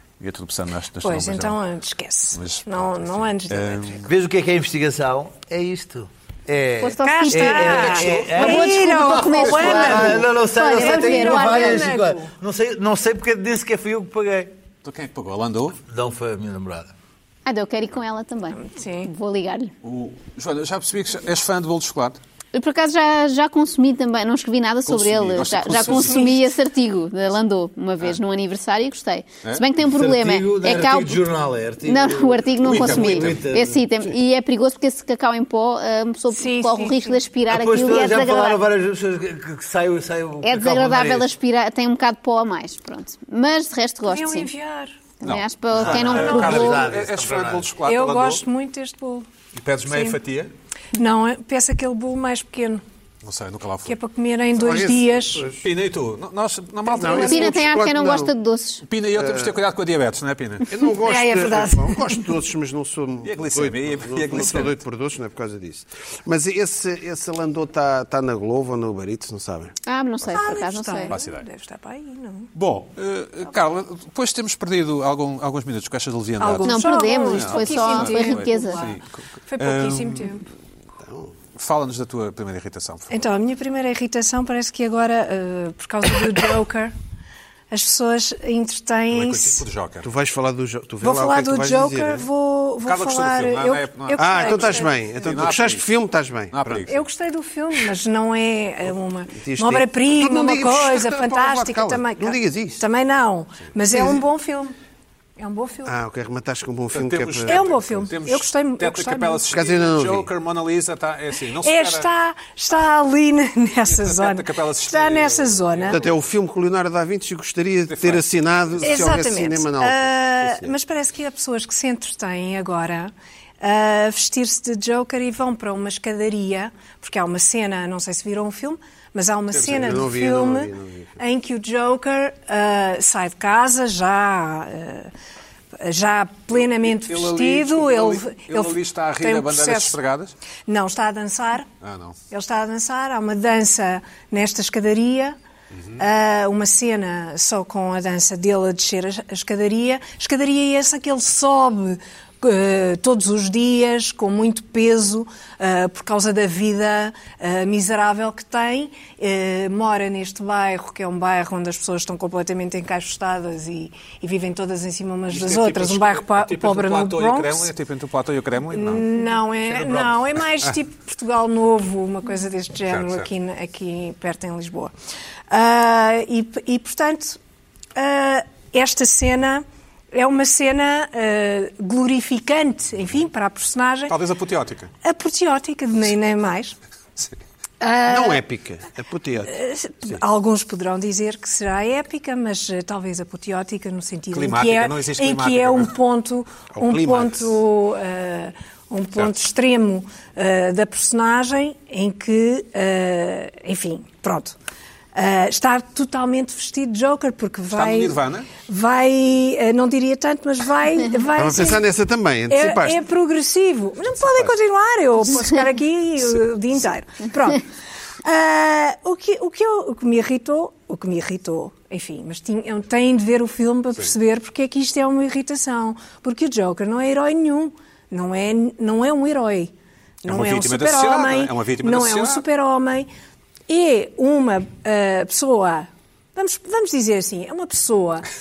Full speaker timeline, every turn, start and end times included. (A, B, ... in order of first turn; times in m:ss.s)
0:00.2-0:01.6 A
0:01.0-0:04.0 B
0:02.4-0:04.1 A
0:04.0-0:14.5 C
0:06.8-0:11.9 D
0:07.0-0:12.3 B
0:09.1-0:09.8 A
0:14.8-0:15.8 A
0:15.9-0:16.9 C
0:17.5-0:19.7 D
0:18.6-0:19.1 B
0:19.8-0:22.2 A
0:22.5-0:31.3 D
0:24.9-0:26.2 A
0:25.8-0:26.5 B
0:29.8-0:33.8 C
0:31.8-0:38.6 D
0:32.6-0:33.4 A
0:36.3-0:37.2 B
0:37.5-0:41.3 C
0:40.4-0:44.5 D
0:44.1-0:45.0 B
0:45.2-0:46.9 D
0:45.2-0:48.4 A
0:45.8-0:47.7 C
0:46.1-0:46.8 B
0:47.8-0:49.3 B
0:49.5-0:50.5 A
0:49.9-0:50.2 B
0:51.0-0:52.8 B
0:53.2-0:54.0 A
0:53.9-0:55.5 B
0:54.6-0:55.6 E
0:55.6-0:57.6 A
0:56.9-0:58.3 E
0:57.0-0:57.5 B
0:57.1-0:58.8 D
0:58.8-1:00.7 A
0:59.2-0:59.6 E
1:00.7-1:09.8 E
1:00.9-1:02.3 B
1:03.2-1:04.8 A
1:09.9-1:11.1 D
1:10.3-1:12.5 B
1:11.1-1:11.4 A
1:12.6-1:20.4 A
1:16.4-1:20.4 B
1:16.6-1:18.8 D
1:21.0-1:21.3 E
1:21.6-1:23.1 A
1:23.1-1:26.9 B
1:27.7-1:29.6 B
1:29.1-1:30.1 A
1:30.0-1:32.3 E
1:31.0-1:34.9 B
1:32.8-1:35.9 A
1:34.2-1:36.8 E
1:36.5-1:37.0 A
1:36.9-1:44.8 B
1:39.3-1:42.8 E
1:43.9-1:44.2 E
1:45.4-1:46.0 B
1:45.8-1:48.0 E
1:46.9-1:52.1 A
1:47.5-1:49.5 B
1:49.5-1:50.3 E
1:51.6-1:56.0 B
1:53.9-1:56.2 A
1:55.9-2:00.7 E
1:57.9-1:58.2 A
1:58.8-2:15.1 B
2:09.5-2:10.0 A
2:09.7-2:11.2 E
2:15.8-2:20.0 B
2:16.5-2:20.3 A
2:20.7-2:21.7 B
2:21.8-2:22.2 A
2:22.3-2:25.4 B
2:25.7-2:26.0 A
2:26.0-2:47.7 B
2:45.3-2:49.1 A
2:48.7-2:54.9 B
2:52.9-2:53.3 A
2:55.5-2:57.4 B
2:58.0-3:04.2 B
3:04.1-3:04.9 A
3:05.0-3:06.8 B
3:07.8-3:08.4 B
3:08.1-3:10.2 E
3:09.5-3:24.6 B
3:14.3-3:15.9 A
3:16.7-3:17.6 E
3:25.2-3:31.8 B
3:27.7-3:28.5 A
3:31.4-3:33.0 E
3:32.5-3:37.6 B
3:38.2-3:49.7 B
3:50.2-3:53.1 B
3:50.3-3:52.4 A
3:53.7-3:58.3 B